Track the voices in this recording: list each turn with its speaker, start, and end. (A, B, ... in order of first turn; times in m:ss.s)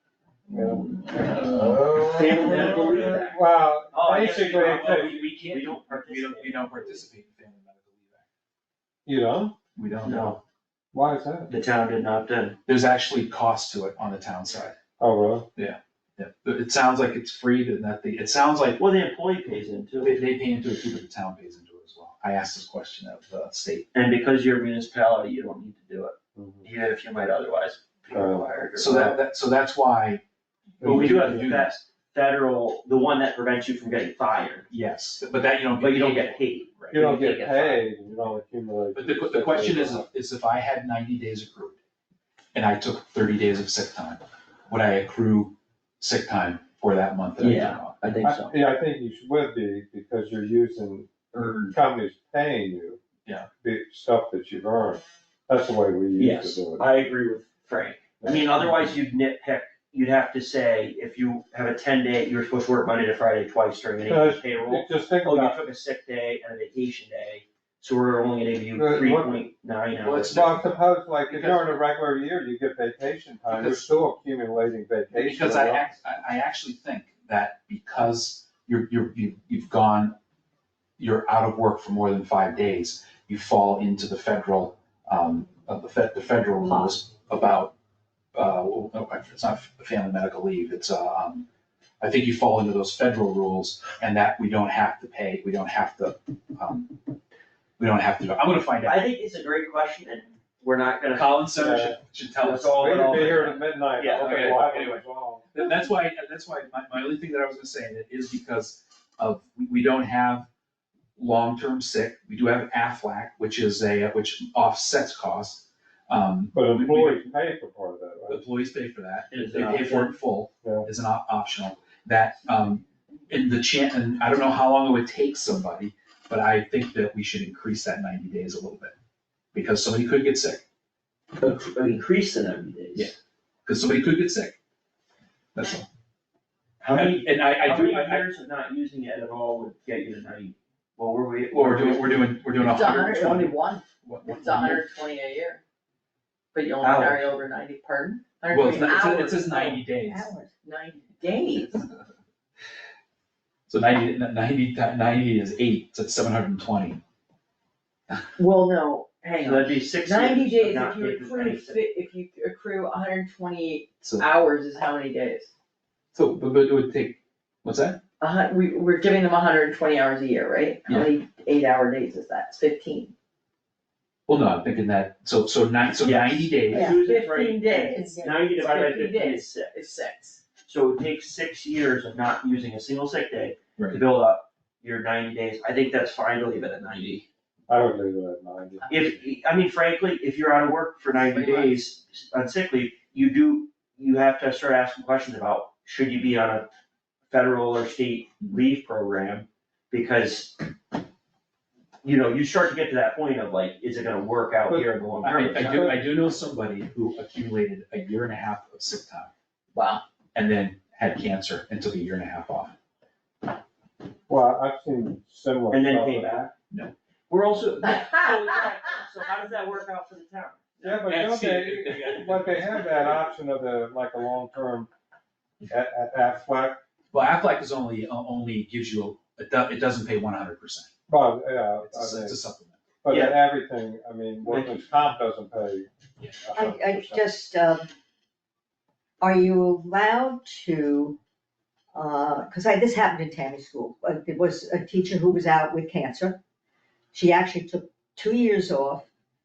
0:00.5-0:05.3 A
0:00.8-0:01.5 B
0:02.1-0:03.3 B
0:04.0-0:06.8 B
0:04.5-0:08.2 C
0:09.0-0:09.6 A
0:09.8-0:10.3 C
0:10.0-0:10.4 B
0:10.9-0:11.5 A
0:11.5-0:12.6 B
0:12.7-0:14.8 C
0:15.0-0:15.5 A
0:15.6-0:18.9 C
0:18.8-0:20.0 B
0:20.0-0:23.9 C
0:24.0-0:26.1 B
0:26.3-0:26.7 A
0:26.6-0:29.0 B
0:28.1-0:29.2 A
0:28.7-0:30.2 C
0:30.8-0:31.7 C
0:30.8-0:31.5 A
0:31.1-0:34.6 B
0:34.7-0:36.4 C
0:35.8-0:37.8 B
0:36.9-0:40.0 A
0:38.9-0:41.8 C
0:42.5-0:48.3 C
0:47.4-0:48.5 B
0:48.2-0:53.0 A
0:51.3-0:51.7 B
0:53.6-0:56.9 A
0:56.2-1:10.4 B
0:58.2-0:58.6 A
1:04.1-1:05.6 A
1:08.8-1:09.5 A
1:09.9-1:11.8 C
1:10.2-1:15.8 A
1:13.5-1:13.9 C
1:15.1-1:20.2 C
1:21.0-1:27.7 C
1:28.3-1:31.4 C
1:32.0-1:37.0 C
1:37.8-1:39.0 C
1:38.9-1:41.2 B
1:41.1-1:43.5 C
1:41.6-1:45.5 A
1:42.6-1:44.5 B
1:44.2-1:50.5 C
1:51.2-1:57.4 C
1:56.5-1:58.4 A
1:58.3-2:08.9 C
1:59.3-1:59.9 B
2:00.6-2:00.9 A
2:09.5-2:10.6 C
2:11.4-2:13.1 B
2:13.6-2:14.6 C
2:15.6-2:15.9 C
2:16.8-2:22.2 B
2:16.9-2:18.3 C
2:21.5-2:24.8 C
2:22.6-2:25.6 D
2:26.5-2:29.8 D
2:26.9-2:27.2 B
2:28.5-2:30.3 C
2:29.6-2:30.5 E
2:30.6-2:31.9 D
2:33.7-2:37.0 C
2:38.4-2:45.5 D
2:39.7-2:41.6 B
2:44.0-2:44.3 C
2:46.1-2:48.0 C
2:48.2-2:53.1 D
2:50.9-2:51.1 C
2:54.3-2:57.0 C
2:56.0-2:56.9 B
2:56.7-2:57.0 E
2:56.9-3:00.4 D
2:57.4-2:59.7 B
2:57.8-2:58.3 E
3:00.6-3:07.2 B
3:03.8-3:04.0 C
3:07.7-3:09.2 A
3:08.9-3:16.7 B
3:11.1-3:11.9 D
3:17.3-3:20.7 B
3:22.0-3:25.8 B
3:25.2-3:29.3 C
3:25.4-3:26.0 A
3:29.7-3:30.0 D
3:30.4-3:32.8 C
3:34.3-3:36.5 A
3:35.7-3:36.4 B
3:37.3-3:40.8 B
3:40.8-3:43.2 C
3:40.8-3:44.9 A
3:45.7-3:46.8 A
3:47.1-3:50.9 C
3:51.1-3:52.4 A
3:51.8-3:52.8 C
3:53.0-3:57.2 A
3:54.5-3:54.9 B
3:56.6-3:57.9 E
3:59.2-4:01.2 E
4:01.9-4:06.4 E
4:07.1-4:09.1 E